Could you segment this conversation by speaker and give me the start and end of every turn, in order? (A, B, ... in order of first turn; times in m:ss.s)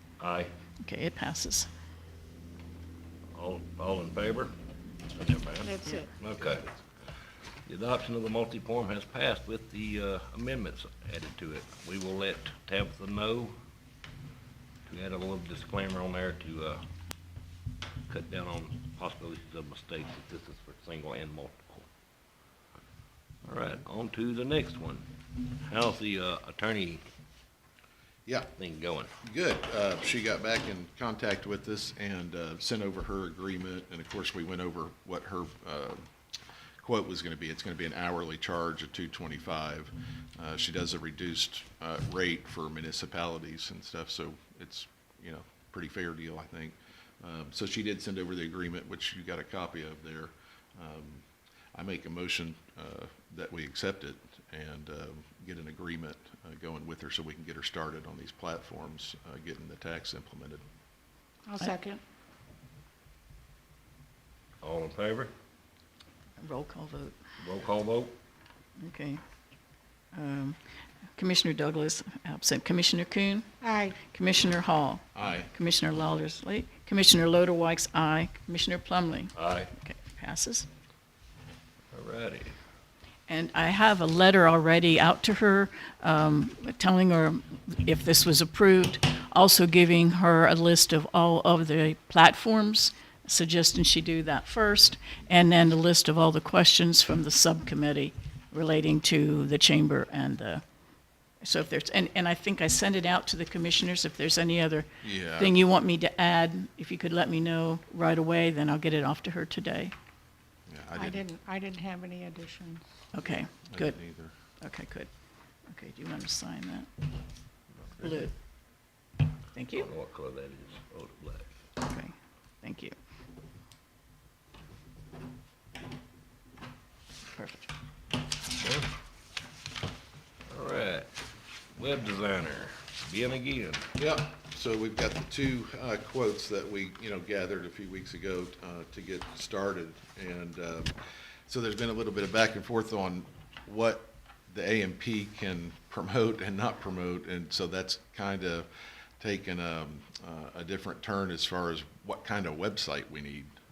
0:00.2-0:00.5 A
0:00.8-0:01.7 B
0:03.3-0:04.6 A
0:05.1-0:06.7 A
0:05.6-0:06.1 C
0:07.7-0:13.6 A
0:14.9-0:16.8 A
0:18.1-0:21.9 A
0:23.4-0:25.1 A
0:25.6-0:27.0 A
0:28.6-0:29.1 A
0:29.2-0:36.0 D
0:36.8-0:51.2 D
0:51.7-1:00.6 D
1:01.5-1:02.0 C
1:04.6-1:05.3 A
1:06.4-1:07.2 B
1:07.4-1:08.2 A
1:08.8-1:09.2 B
1:10.1-1:10.6 B
1:11.2-1:13.5 B
1:13.6-1:14.0 C
1:14.0-1:20.7 B
1:15.2-1:15.5 D
1:19.4-1:19.7 A
1:21.9-1:22.6 A
1:23.3-1:40.6 B
1:41.4-1:49.9 B
1:45.0-1:45.5 D
1:50.7-1:51.2 D
1:51.0-1:52.8 C
1:53.1-1:54.0 B
1:53.7-1:54.3 D
1:54.6-1:55.1 B
1:55.7-1:56.9 B
1:58.0-1:58.3 B
1:59.5-1:59.9 B
1:59.7-2:01.6 A
2:01.8-2:03.0 B
2:07.3-2:07.7 B
2:08.6-2:08.9 A
2:10.5-2:11.1 A
2:11.8-2:13.9 A
2:14.0-2:21.0 D
2:21.5-2:28.7 D
2:29.2-2:33.6 D